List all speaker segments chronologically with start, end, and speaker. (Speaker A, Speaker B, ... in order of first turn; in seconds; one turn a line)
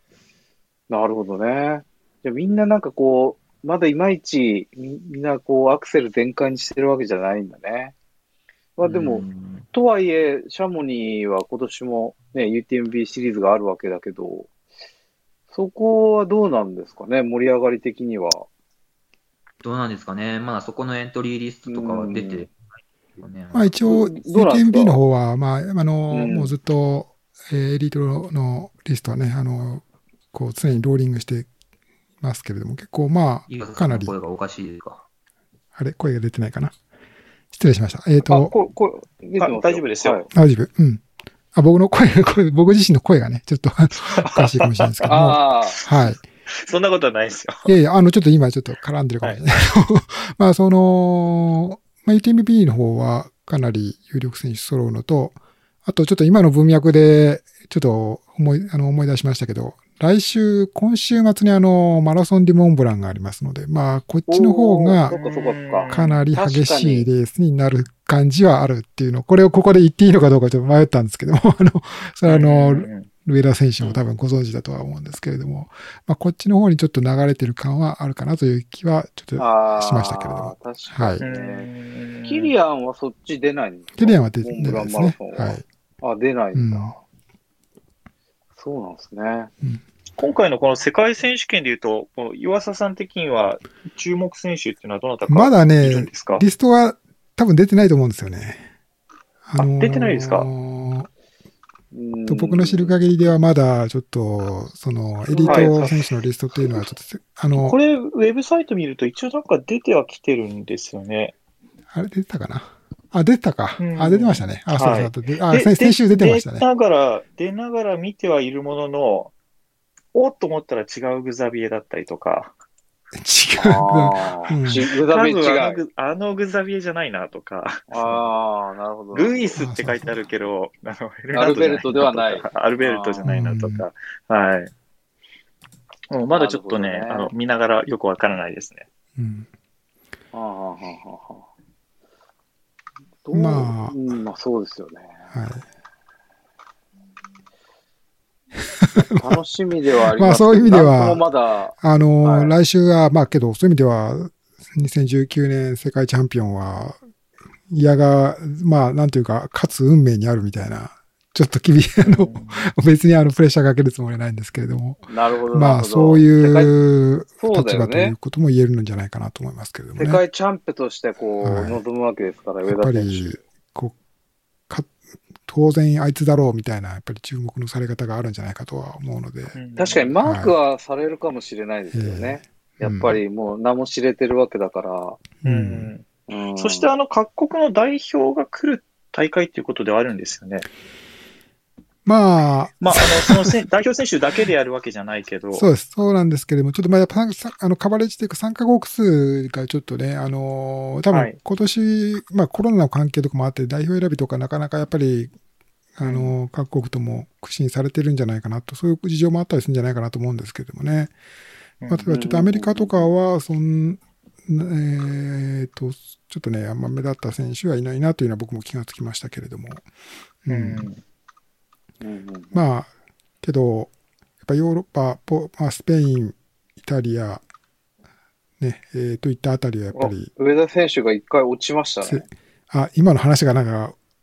Speaker A: 0.9-7.9
Speaker A: 8.8-14.5
Speaker B: 8.8-9.7
Speaker A: 15.5-18.5
Speaker B: 19.6-23.7
Speaker A: 21.7-22.4
Speaker C: 23.5-31.5
Speaker A: 23.9-25.0
Speaker A: 26.1-26.5
Speaker C: 32.2-34.1
Speaker B: 33.5-35.0
Speaker C: 35.8-36.7
Speaker C: 37.5-38.5
Speaker A: 38.2-40.3
Speaker D: 39.4-40.2
Speaker C: 40.3-41.0
Speaker C: 41.5-46.2
Speaker D: 44.1-47.7
Speaker A: 45.1-45.8
Speaker C: 47.6-65.1
Speaker A: 64.3-67.1
Speaker D: 65.1-66.2
Speaker C: 65.9-81.2
Speaker D: 72.2-73.1
Speaker A: 79.4-81.7
Speaker D: 81.2-82.5
Speaker A: 82.2-87.0
Speaker C: 84.0-85.7
Speaker C: 86.5-86.9
Speaker A: 88.6-89.5
Speaker D: 90.2-96.5
Speaker C: 95.3-98.7
Speaker C: 99.5-101.1
Speaker D: 99.6-100.5
Speaker A: 101.9-103.0
Speaker C: 102.3-107.8
Speaker A: 105.3-105.9
Speaker D: 105.5-106.1
Speaker D: 107.5-111.3
Speaker C: 111.9-116.6
Speaker D: 113.8-119.3
Speaker D: 120.1-122.5
Speaker C: 123.1-124.9
Speaker A: 123.6-125.8
Speaker D: 124.8-128.2
Speaker A: 127.9-129.5
Speaker D: 129.1-134.7
Speaker C: 129.6-130.2
Speaker A: 131.3-133.3
Speaker C: 133.2-133.8
Speaker D: 136.1-138.9
Speaker A: 136.3-137.3
Speaker C: 139.2-139.5
Speaker A: 140.3-141.4
Speaker A: 143.2-145.2
Speaker C: 143.3-143.9
Speaker C: 145.3-145.6
Speaker C: 148.8-149.4
Speaker A: 149.1-152.6
Speaker C: 150.1-151.2
Speaker C: 151.8-157.0
Speaker C: 157.7-170.2
Speaker D: 162.0-162.6
Speaker A: 165.1-166.7
Speaker A: 167.4-168.1
Speaker A: 170.0-173.4
Speaker C: 171.4-171.8
Speaker C: 172.6-173.9
Speaker C: 174.7-179.6
Speaker D: 179.5-180.1
Speaker A: 179.8-185.2
Speaker C: 180.2-180.6
Speaker C: 181.9-183.2
Speaker C: 185.4-185.9
Speaker D: 185.4-186.1
Speaker A: 186.3-186.9
Speaker D: 186.6-190.7
Speaker C: 192.1-193.5
Speaker D: 192.8-195.7
Speaker C: 195.5-205.3
Speaker D: 201.1-201.4
Speaker C: 205.9-211.1
Speaker D: 206.0-206.3
Speaker D: 211.8-212.1
Speaker C: 211.9-219.9
Speaker A: 212.1-213.1
Speaker C: 220.4-220.9
Speaker D: 220.5-221.0
Speaker A: 222.0-222.6
Speaker C: 222.5-222.9
Speaker C: 223.4-223.9
Speaker C: 224.4-227.4
Speaker C: 228.6-230.3
Speaker A: 229.9-232.3
Speaker C: 232.0-233.9